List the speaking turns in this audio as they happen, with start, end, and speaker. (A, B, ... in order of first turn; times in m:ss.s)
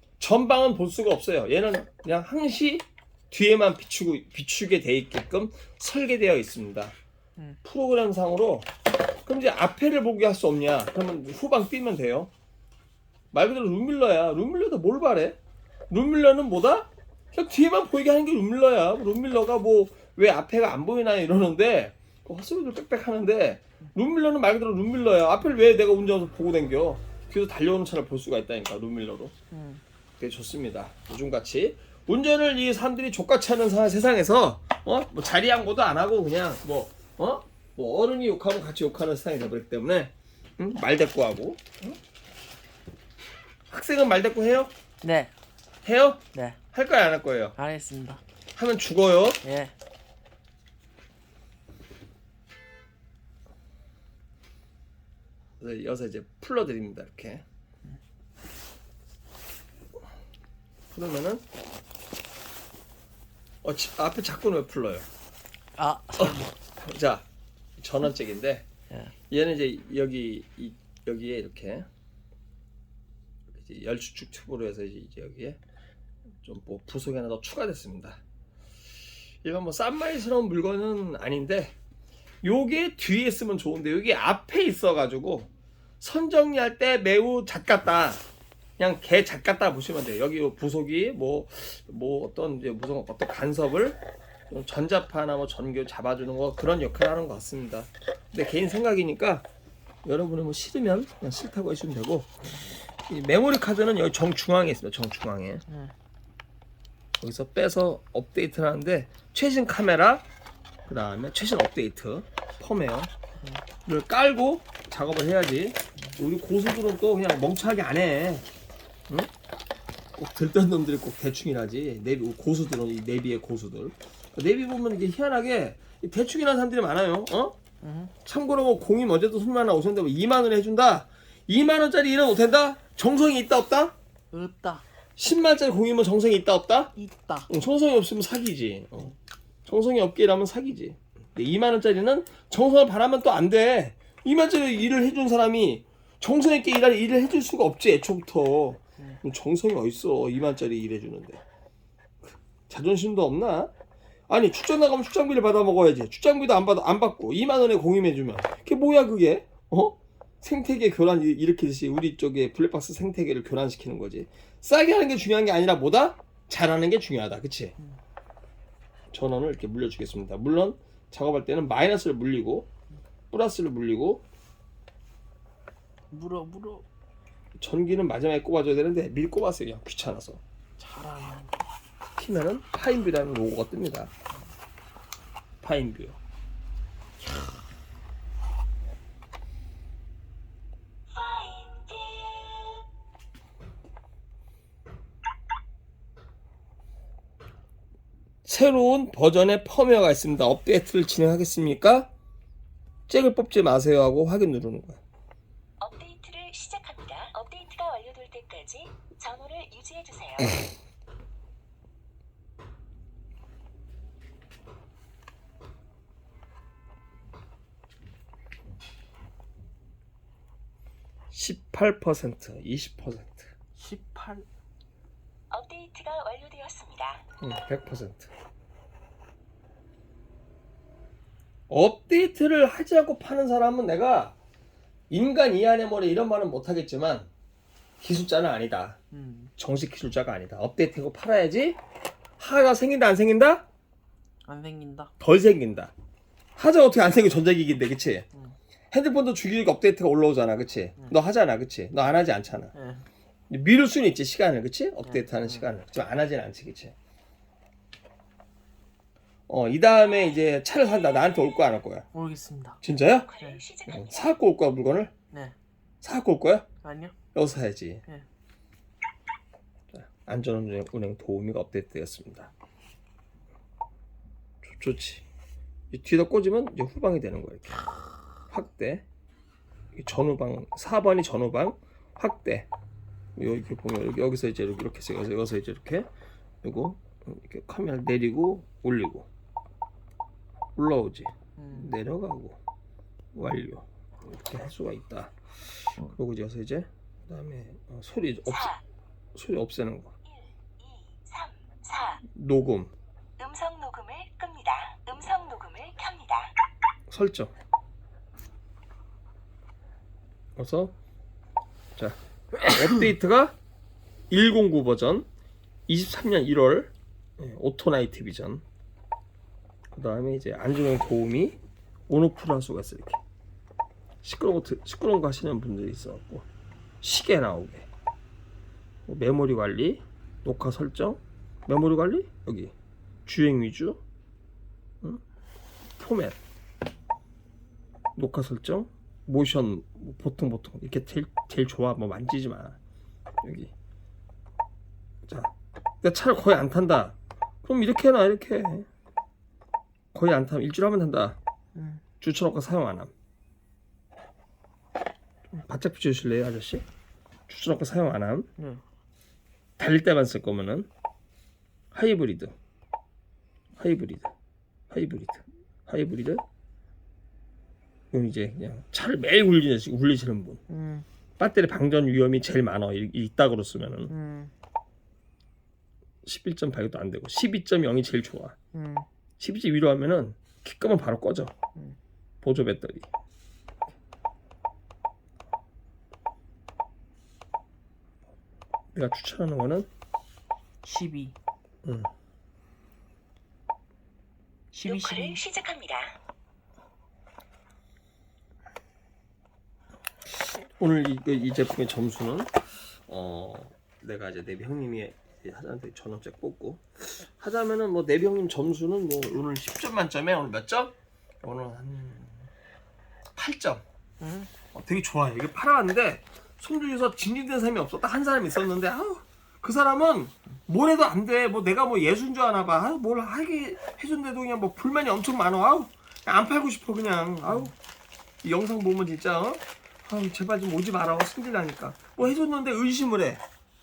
0:00.2-0:06.9 A
0:07.6-0:08.7 A
0:09.2-0:12.3 A
0:13.3-0:15.4 A
0:15.9-0:29.3 A
0:29.5-0:29.8 B
0:30.2-0:42.0 A
0:43.7-0:44.7 A
0:45.0-0:45.3 B
0:45.8-0:47.6 A
0:46.3-0:46.6 B
0:47.6-0:48.2 B
0:48.5-0:49.4 A
0:49.4-0:49.7 B
0:55.6-0:57.4 A
1:00.9-1:01.4 A
1:03.6-1:05.1 A
1:05.8-1:06.5 B
1:06.2-1:07.2 A
1:07.8-1:08.7 A
1:09.3-1:11.8 A
1:13.5-1:15.6 A
1:16.4-1:18.2 A
1:19.4-1:21.7 A
1:22.4-1:28.2 A
1:28.8-1:39.4 A
1:40.0-1:42.3 A
1:43.1-1:45.6 A
1:45.7-1:45.9 B
1:47.2-1:50.2 A
1:50.8-1:53.1 A
1:53.8-1:58.5 A
2:00.2-2:07.6 A
2:07.8-2:08.1 B
2:08.2-2:13.9 A
2:14.3-2:14.8 B
2:15.2-2:16.9 A
2:17.0-2:17.5 B
2:17.5-2:31.4 A
2:32.2-2:33.7 A
2:34.3-2:47.8 A
2:49.1-2:52.7 A
2:53.3-2:54.2 A
2:56.1-2:56.8 B
2:57.6-3:00.4 A
3:00.8-3:01.5 B
3:02.2-3:04.1 A
3:05.6-3:06.2 A
3:11.2-3:12.4 C
3:18.4-3:22.1 A
3:23.1-3:25.0 A
3:25.8-3:30.6 C
3:41.3-3:43.5 A
3:43.8-3:44.4 B
3:45.5-3:47.2 C
3:47.4-3:48.3 A
3:51.7-3:54.4 A
3:55.1-3:57.3 A
3:58.0-3:59.0 A
3:59.1-3:59.5 B
3:59.6-4:01.8 A
4:02.4-4:03.6 A
4:04.4-4:05.1 B
4:05.2-4:05.9 A
4:06.6-4:08.2 A
4:08.9-4:12.7 A
4:12.7-4:13.0 B
4:13.5-4:17.0 A
4:15.0-4:15.7 B
4:19.5-4:22.1 A
4:22.1-4:22.8 B
4:22.8-4:23.3 A
4:23.2-4:24.3 C
4:23.4-4:23.6 B
4:23.9-4:25.1 A
4:26.0-4:26.6 A
4:26.8-4:27.1 B
4:27.3-4:28.0 A
4:29.9-4:32.5 A
4:34.6-4:35.2 A
4:35.9-4:37.9 A
4:38.5-4:39.0 A
4:39.9-4:42.7 A
4:43.4-4:46.1 A
4:46.6-4:49.3 A
4:50.8-4:52.6 A
4:51.6-4:51.9 B
4:53.3-4:55.4 A
4:56.0-4:58.7 A
4:58.5-4:58.8 C
4:59.3-5:00.1 A
5:00.4-5:02.2 C
5:02.3-5:02.9 A
5:03.4-5:06.5 C
5:07.1-5:07.5 A
5:10.6-5:10.9 A
5:12.0-5:13.6 A
5:14.3-5:15.3 A
5:15.9-5:18.6 A
5:19.9-5:21.6 A
5:22.1-5:23.2 A
5:24.2-5:26.5 A
5:27.0-5:27.9 A
5:29.1-5:32.7 A
5:33.2-5:34.0 A
5:36.0-5:36.4 A
5:38.2-5:42.8 A
5:43.4-5:43.7 A
5:45.2-5:48.9 A
5:50.1-5:51.4 A
5:51.7-5:52.0 B
5:52.2-5:53.1 A
5:55.5-5:56.8 A
5:57.5-5:58.5 A
5:58.6-5:58.8 B
5:59.8-6:00.9 A
6:01.9-6:02.5 A
6:03.8-6:04.3 A
6:04.9-6:06.4 A
6:08.1-6:10.6 A
6:10.7-6:11.0 B
6:11.4-6:14.1 A
6:14.1-6:14.5 B
6:16.2-6:18.6 A
6:18.7-6:19.0 B
6:19.4-6:21.5 A
6:22.4-6:23.1 A
6:28.9-6:29.9 A
6:30.8-6:31.3 B
6:31.8-6:32.1 A
6:34.7-6:35.4 B
6:34.8-6:36.1 C
6:40.8-6:52.5 A
6:53.4-6:53.8 A
6:54.2-6:54.5 B
6:54.7-7:07.7 A
7:08.4-7:13.4 A